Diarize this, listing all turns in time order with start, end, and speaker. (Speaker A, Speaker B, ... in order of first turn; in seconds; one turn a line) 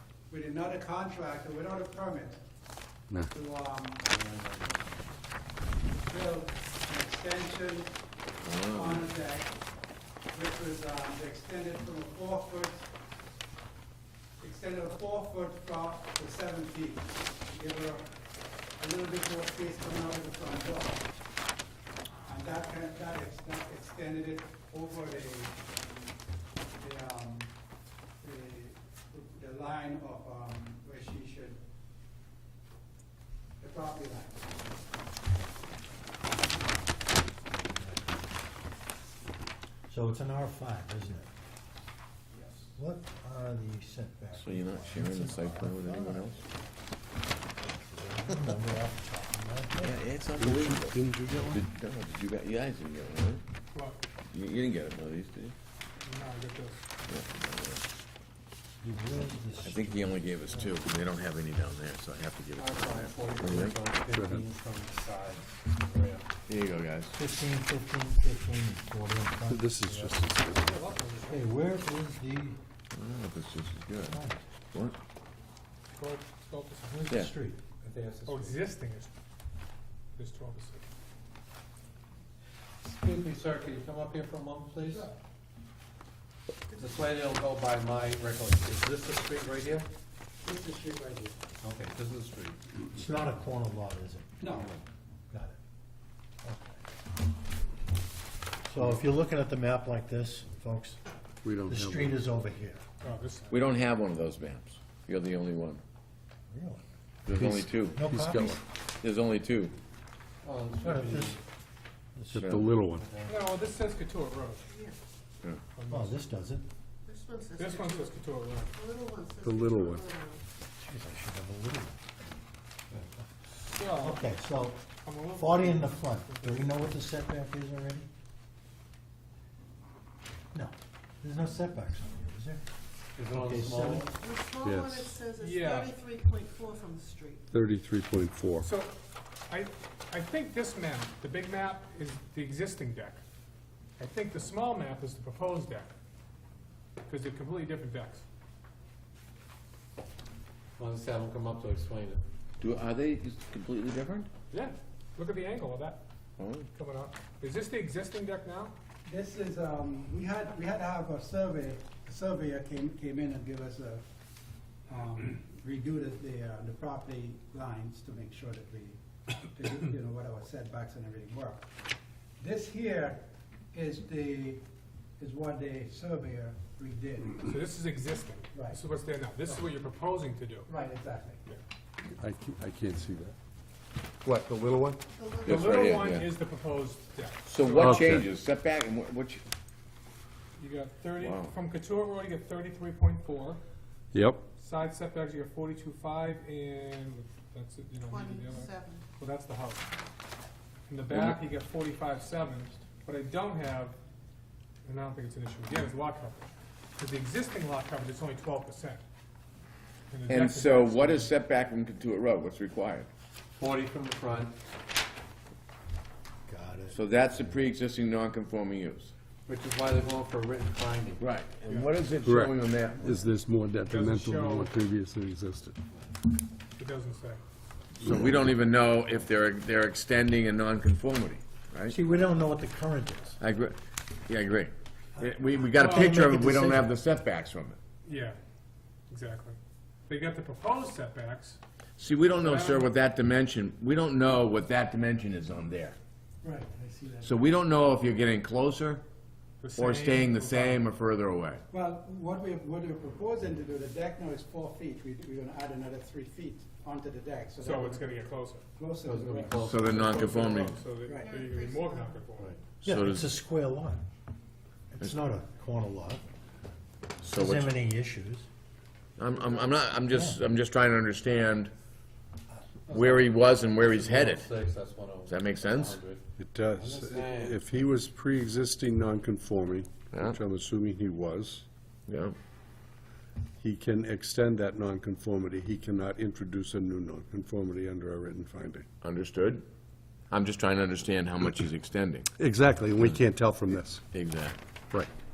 Speaker A: 0.3-2.4
Speaker A: 3.3-4.1
Speaker B: 4.1-4.7
Speaker A: 6.0-8.0
Speaker C: 8.4-9.1
Speaker A: 8.7-9.5
Speaker A: 10.3-12.9
Speaker A: 14.4-18.1
Speaker A: 18.8-21.1
Speaker A: 22.2-25.8
Speaker A: 26.8-27.5
Speaker A: 28.2-31.6
Speaker A: 33.6-34.8
Speaker D: 37.4-38.3
Speaker D: 39.9-41.3
Speaker A: 42.3-42.6
Speaker D: 42.7-46.4
Speaker C: 44.4-46.4
Speaker D: 47.6-50.0
Speaker C: 49.7-53.4
Speaker E: 50.4-51.6
Speaker F: 53.7-54.0
Speaker C: 54.3-55.5
Speaker F: 56.0-56.8
Speaker C: 57.1-57.8
Speaker D: 58.8-60.5
Speaker C: 59.6-63.8
Speaker B: 62.6-66.2
Speaker E: 64.1-64.5
Speaker C: 66.5-67.2
Speaker D: 67.1-70.1
Speaker E: 69.5-70.8
Speaker F: 70.5-71.4
Speaker D: 71.2-72.6
Speaker C: 72.9-74.2
Speaker D: 74.1-74.4
Speaker F: 75.9-77.0
Speaker D: 76.9-77.6
Speaker B: 77.8-78.7
Speaker F: 78.2-79.1
Speaker F: 80.2-80.8
Speaker B: 82.8-85.1
Speaker A: 84.8-85.1
Speaker B: 86.8-89.9
Speaker A: 90.4-91.4
Speaker B: 91.6-92.6
Speaker D: 92.8-94.7
Speaker A: 94.4-94.7
Speaker D: 95.3-95.5
Speaker D: 96.4-96.8
Speaker D: 98.6-101.0
Speaker E: 101.4-102.2
Speaker D: 101.7-102.8
Speaker F: 103.0-103.6
Speaker C: 103.5-105.8
Speaker D: 106.5-106.8
Speaker C: 107.2-108.0
Speaker E: 107.3-108.6
Speaker D: 107.9-108.6
Speaker C: 109.0-109.8
Speaker B: 110.4-111.4
Speaker D: 110.8-111.4
Speaker D: 112.1-112.6
Speaker E: 112.3-113.0
Speaker C: 112.3-112.6
Speaker B: 113.0-113.3
Speaker F: 113.2-114.6
Speaker G: 114.7-115.0
Speaker F: 115.7-116.2
Speaker D: 115.9-116.7
Speaker G: 117.0-118.2
Speaker F: 117.5-118.7
Speaker G: 118.7-120.4
Speaker E: 119.4-120.1
Speaker D: 120.8-122.0
Speaker D: 122.9-128.1
Speaker F: 123.7-124.3
Speaker F: 125.0-126.9
Speaker D: 130.5-132.6
Speaker B: 133.2-134.2
Speaker D: 133.3-134.1
Speaker G: 134.1-137.4
Speaker E: 134.6-135.2
Speaker F: 135.3-136.0
Speaker E: 137.5-138.7
Speaker F: 138.6-138.9
Speaker F: 139.5-143.2
Speaker F: 144.0-145.9
Speaker F: 147.1-148.2
Speaker B: 150.8-152.2
Speaker C: 152.6-154.3
Speaker F: 154.5-156.0
Speaker C: 156.4-156.7
Speaker F: 156.7-158.7
Speaker A: 159.0-164.0
Speaker A: 164.9-171.7
Speaker A: 172.4-174.6
Speaker A: 175.2-177.5
Speaker F: 177.4-180.7
Speaker A: 178.5-178.8
Speaker A: 180.7-181.4
Speaker E: 182.2-183.3
Speaker E: 184.2-185.0
Speaker G: 185.2-185.7
Speaker C: 185.4-186.3
Speaker F: 185.4-188.1
Speaker C: 187.4-189.4
Speaker E: 187.8-188.2
Speaker F: 190.6-193.6
Speaker C: 191.2-191.5
Speaker E: 194.1-194.4
Speaker F: 194.6-199.9
Speaker G: 198.1-199.0
Speaker F: 200.9-204.0
Speaker C: 201.1-201.4
Speaker F: 204.8-209.0
Speaker F: 210.1-211.3
Speaker C: 210.3-213.1
Speaker B: 213.5-214.6
Speaker D: 216.5-217.7
Speaker C: 216.9-219.1
Speaker B: 219.5-221.2
Speaker C: 221.2-223.2
Speaker E: 222.2-225.8
Speaker F: 223.8-224.7
Speaker F: 226.8-227.4
Speaker C: 228.0-231.9
Speaker E: 228.0-228.5
Speaker D: 231.9-233.4
Speaker C: 233.4-237.8
Speaker D: 235.2-236.9
Speaker F: 235.8-236.2
Speaker F: 238.0-238.4
Speaker F: 239.1-241.6
Speaker C: 242.0-246.0
Speaker F: 242.4-242.9
Speaker A: 246.4-247.6
Speaker C: 247.2-249.0
Speaker F: 249.6-250.9
Speaker C: 249.7-251.6
Speaker A: 251.7-260.0
Speaker F: 257.6-258.6
Speaker B: 259.0-260.2
Speaker C: 259.6-260.8
Speaker F: 259.9-262.6
Speaker A: 261.0-261.3
Speaker G: 261.2-262.2
Speaker C: 262.8-263.3
Speaker D: 262.8-264.0
Speaker D: 264.9-266.2
Speaker C: 267.2-267.8
Speaker D: 267.3-268.5
Speaker C: 269.2-271.7
Speaker D: 270.1-270.4
Speaker C: 272.9-274.5
Speaker B: 272.9-276.2
Speaker C: 275.3-276.0
Speaker E: 276.4-281.6
Speaker B: 276.7-277.6
Speaker C: 280.1-280.4
Speaker C: 282.1-282.4
Speaker E: 283.6-288.9
Speaker C: 289.0-289.6
Speaker C: 290.3-292.3
Speaker E: 292.4-294.1
Speaker C: 294.1-294.6